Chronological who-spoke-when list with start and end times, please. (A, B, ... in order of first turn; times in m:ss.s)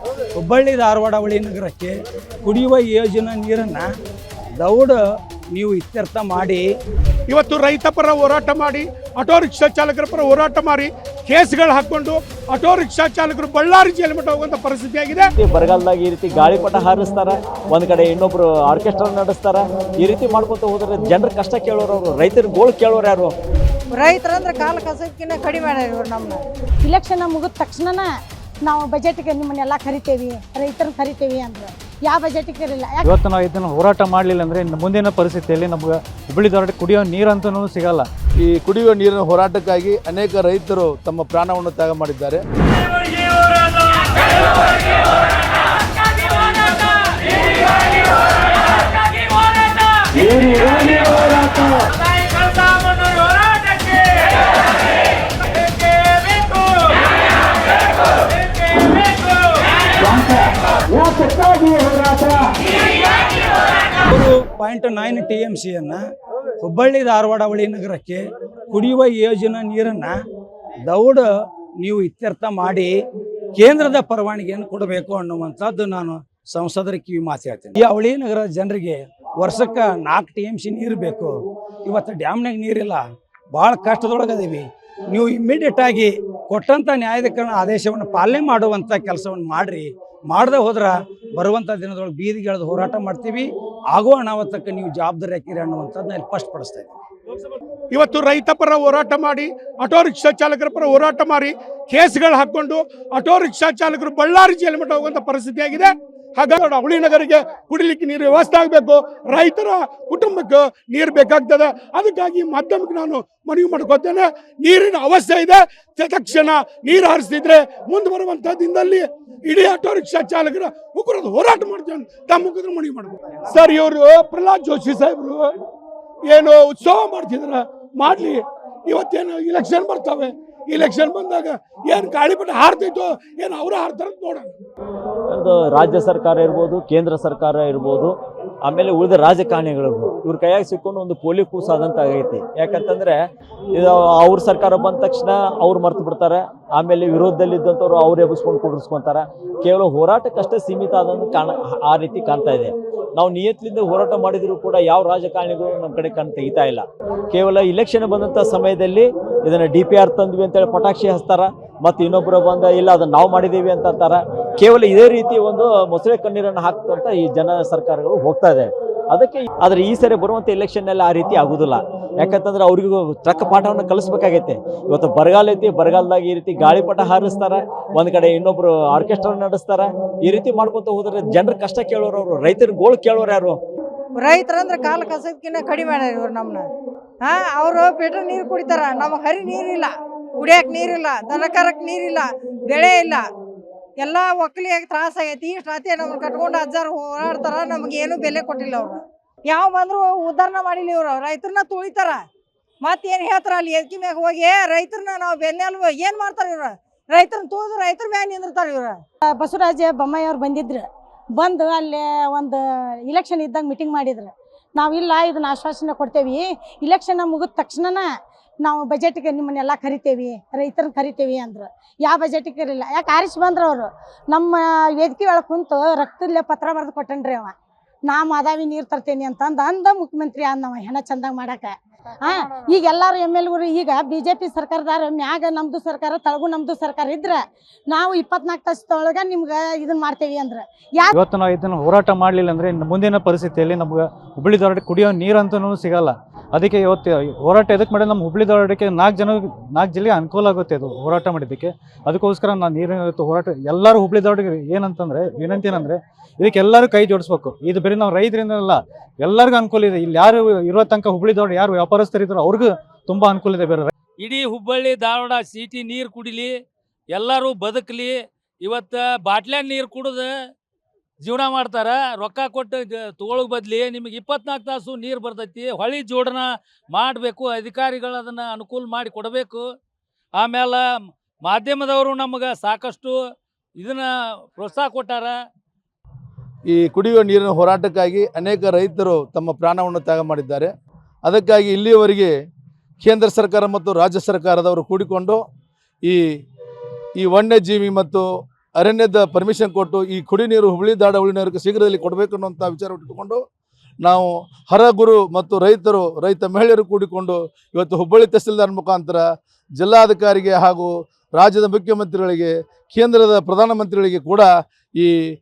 0:00.4-0:03.9 A
0:04.6-0:05.0 A
0:05.5-0:06.6 A
0:07.3-0:15.3 B
0:15.4-0:23.3 C
0:23.9-0:26.4 D
0:26.8-0:28.1 E
0:28.6-0:33.1 E
0:33.0-0:38.1 F
0:38.4-0:42.4 G
1:00.0-1:02.4 A
1:04.0-1:06.0 A
1:06.6-1:10.2 A
1:10.9-1:11.2 A
1:11.8-1:12.9 A
1:13.6-1:37.0 A
1:37.9-2:05.5 B
2:06.3-2:14.5 B
2:15.3-2:23.2 C
2:23.7-3:03.6 C
3:04.2-3:06.6 D
3:07.2-3:13.2 D
3:14.0-3:19.0 D
3:19.5-3:22.2 D
3:22.8-3:28.9 D
3:29.4-3:38.1 E
3:38.6-3:47.5 E
3:48.1-4:01.2 E
4:01.1-4:23.9 F
4:24.2-4:26.6 H
4:27.1-4:30.3 H
4:31.2-4:39.7 H
4:40.4-4:40.8 H
4:41.4-4:43.2 H
4:43.8-4:45.3 H
4:46.7-4:50.7 G
4:51.2-4:52.3 G
4:53.0-4:55.4 G
4:57.2-4:58.2 G
4:58.8-5:03.4 G
5:04.0-5:09.2 G
5:09.8-5:15.1 G